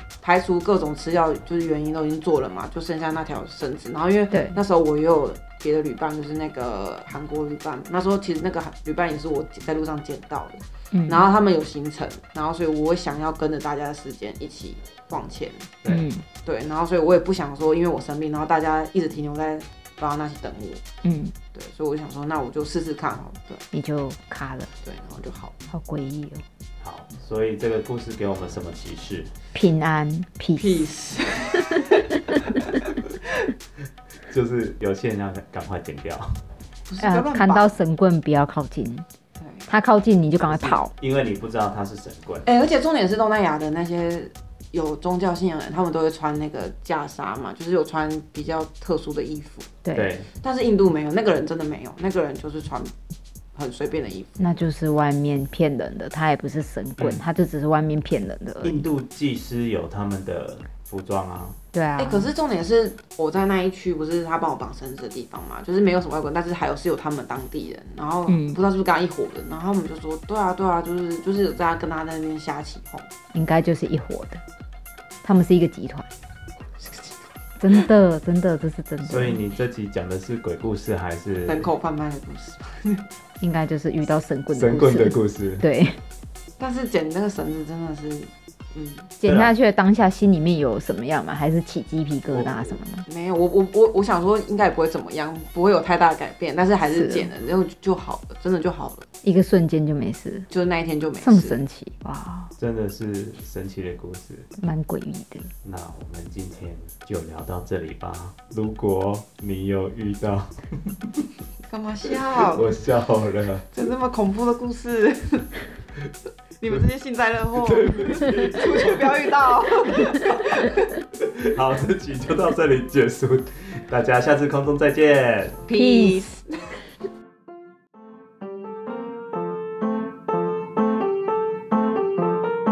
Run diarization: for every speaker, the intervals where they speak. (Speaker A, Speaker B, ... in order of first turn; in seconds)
Speaker A: 0.2-15.7, 16.4-20.8, 21.5-23.6, 24.8-25.5, 30.6-33.1, 36.9-37.7, 39.4-39.7, 42.5-49.7, 50.3-52.9, 53.5-54.6, 62.0-73.1, 76.8-77.1, 81.5-83.0, 86.6-89.1, 93.0-99.0, 100.5-101.6, 111.7-112.7, 113.7-115.5, 116.6-121.0, 125.7-126.8
Speaker B: 4.3-4.6, 10.9-11.2, 15.9-16.2, 21.0-21.3, 23.7-24.7, 25.7-26.4, 29.5-30.9, 37.0-39.0, 39.7-40.9, 49.8-50.1, 54.4-58.8, 61.7-62.3, 68.3-68.6, 73.3-74.4, 75.2-76.1, 77.6-79.4, 83.4-86.0, 89.2-93.0, 96.8-97.3, 99.2-100.5, 101.2-102.5, 104.6-105.5, 125.7-126.3
Speaker C: 26.8-29.3, 34.3-36.4, 40.9-42.5, 49.9-50.3, 57.0-57.2, 58.6-61.6, 79.0-81.7, 84.5-85.6, 89.2-89.5, 92.3-92.7, 102.6-104.5, 105.6-111.2, 112.2-113.7, 117.5-119.3, 121.2-125.6